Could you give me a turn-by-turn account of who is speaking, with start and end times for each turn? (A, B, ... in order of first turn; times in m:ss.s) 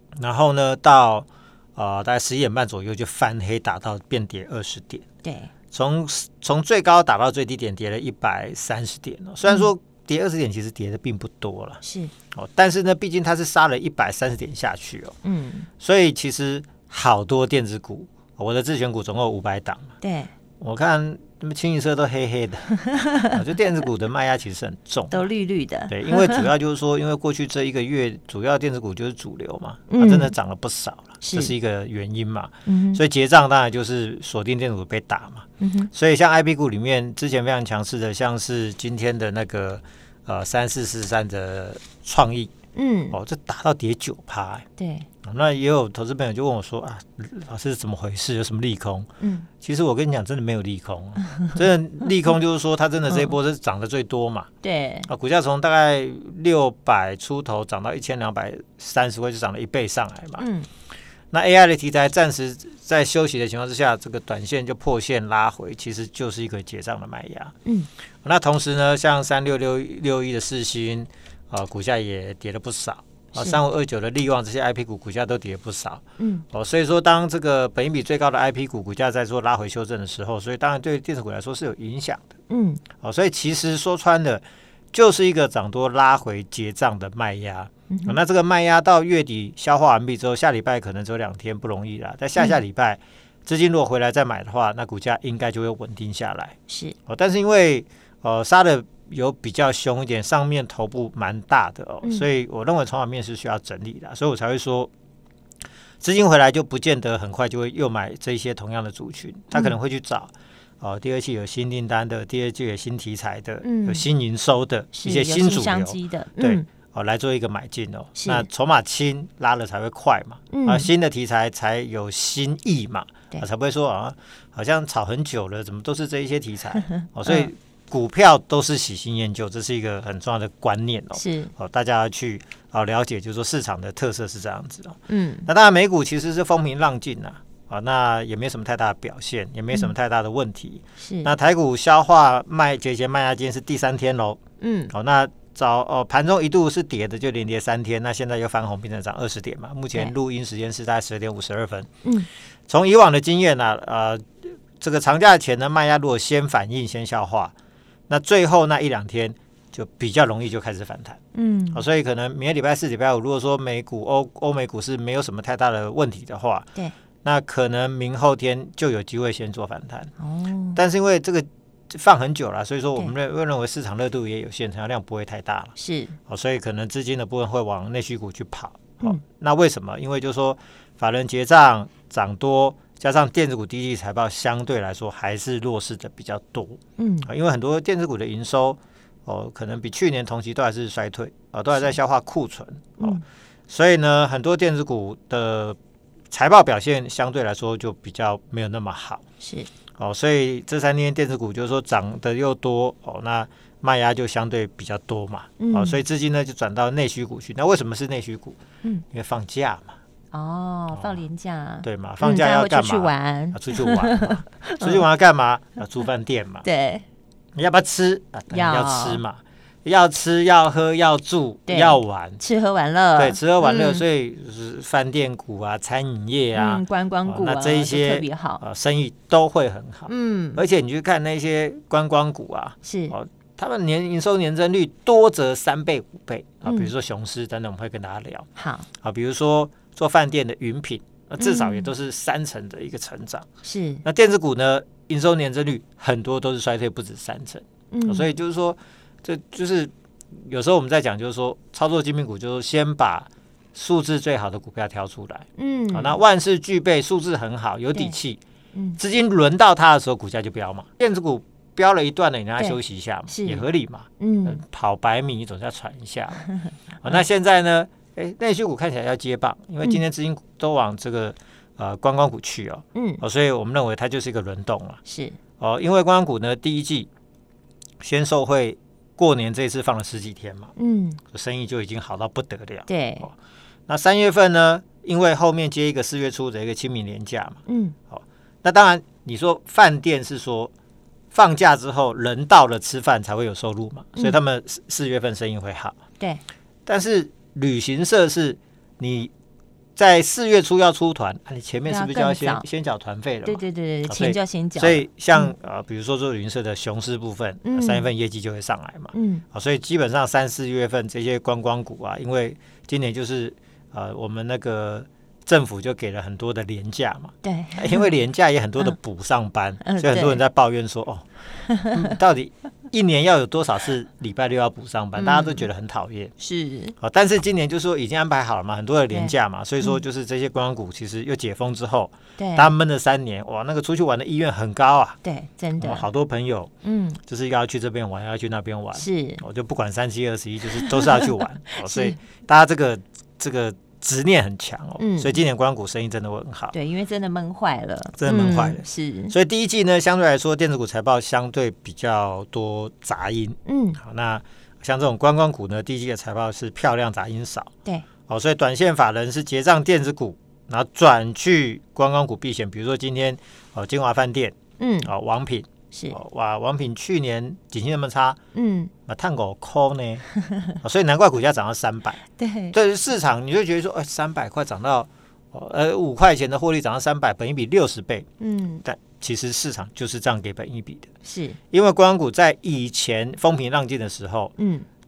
0:00.2-0:05.0 A
0:05.2-0:05.5 B
0:05.7-0:11.8 A
0:09.4-0:09.7 B
0:11.8-0:12.1 B
0:12.3-0:15.1 A
0:15.2-0:15.7 B
0:15.8-0:19.9 A
0:20.0-0:20.3 B
0:20.6-0:22.8 A
0:23.0-0:23.4 B
0:23.3-0:25.2 A
0:25.1-0:26.5 B
0:25.9-0:42.5 A
0:29.9-0:30.3 B
0:31.2-0:31.5 B
0:32.6-0:33.0 B
0:35.6-0:35.9 B
0:42.7-0:43.2 B
0:43.1-0:44.6 A
0:44.8-0:45.1 B
0:45.2-0:49.1 A
0:49.2-0:49.5 B
0:49.6-0:54.5 A
0:54.6-0:55.1 B
0:55.0-1:00.5 A
1:00.4-1:00.7 B
1:01.3-1:07.5 A
1:08.2-1:22.3 A
1:13.3-1:13.6 B
1:16.2-1:16.4 B
1:22.5-1:22.8 B
1:23.0-1:36.6 A
1:27.9-1:28.2 B
1:36.7-1:37.0 B
1:37.1-1:44.9 A
1:46.0-2:24.4 A
1:53.6-1:54.0 B
1:54.9-1:56.6 B
1:58.2-1:58.5 B
2:00.5-2:00.9 B
2:11.1-2:11.5 B
2:15.1-2:15.5 B
2:21.0-2:21.3 B
2:24.6-2:24.9 B
2:24.9-2:31.9 A
2:32.7-2:34.2 A
2:34.8-2:37.5 A
2:38.1-2:41.2 A
2:41.3-2:41.8 B
2:41.7-2:46.7 A
2:47.2-2:50.1 A
2:50.2-2:50.8 B
2:50.7-2:55.7 A
2:55.8-2:56.2 B
2:56.3-3:15.8 A
3:07.0-3:07.3 B
3:16.3-3:19.2 A
3:19.4-3:19.7 B
3:20.0-3:28.6 A
3:25.6-3:26.0 B
3:29.1-3:29.9 A
3:30.3-3:35.0 B
3:30.9-3:31.2 A
3:31.8-3:36.6 A
3:36.6-3:37.0 B
3:37.5-3:42.4 A
3:38.5-3:39.2 B
3:41.7-3:44.0 B
3:43.2-3:58.4 A
3:46.5-3:48.6 B
3:50.1-3:50.6 B
3:52.8-3:53.1 B
3:56.6-3:56.9 B
3:58.6-3:58.9 B
3:59.0-4:03.4 A
4:01.4-4:01.9 B
4:03.6-4:04.0 B
4:04.0-4:18.4 A
4:07.9-4:08.3 B
4:15.6-4:16.2 B
4:18.7-4:19.0 B
4:19.0-4:26.4 A
4:22.6-4:23.6 B
4:24.2-4:24.6 B
4:27.0-4:35.0 A
4:33.0-4:33.2 B
4:35.0-4:35.4 B
4:35.6-4:37.1 A
4:38.0-4:40.7 A
4:40.8-4:41.2 B
4:41.3-4:43.3 A
4:42.9-4:43.3 B
4:43.9-4:50.7 A
4:47.7-4:47.9 B
4:51.3-4:56.0 A
4:56.8-4:59.3 A
5:00.0-5:21.2 A
5:01.8-5:02.6 B
5:03.4-5:05.5 B
5:07.6-5:08.1 B
5:09.1-5:09.4 B
5:17.4-5:18.2 B
5:19.8-5:20.4 B
5:21.7-5:22.0 B
5:21.9-5:26.3 A
5:25.2-5:25.7 B
5:26.4-5:26.9 B
5:27.0-5:35.2 A
5:29.1-5:30.0 B
5:32.4-5:32.7 B
5:35.2-5:36.1 B
5:35.8-5:36.7 A
5:36.8-5:37.2 B
5:37.2-5:46.7 A
5:38.9-5:39.4 B
5:40.8-5:42.2 B
5:45.0-5:45.4 B
5:46.7-5:49.3 B
5:48.2-5:57.7 A
5:53.6-5:54.0 B
5:58.3-6:08.4 A
6:04.8-6:05.1 B
6:05.9-6:06.2 B
6:08.5-6:08.9 B
6:09.1-6:10.3 A
6:10.8-6:12.2 A
6:12.3-6:12.8 B
6:12.7-6:18.2 A
6:18.4-6:18.8 B
6:18.8-6:21.1 A
6:21.2-6:21.6 B
6:21.7-6:24.5 A
6:24.6-6:24.9 B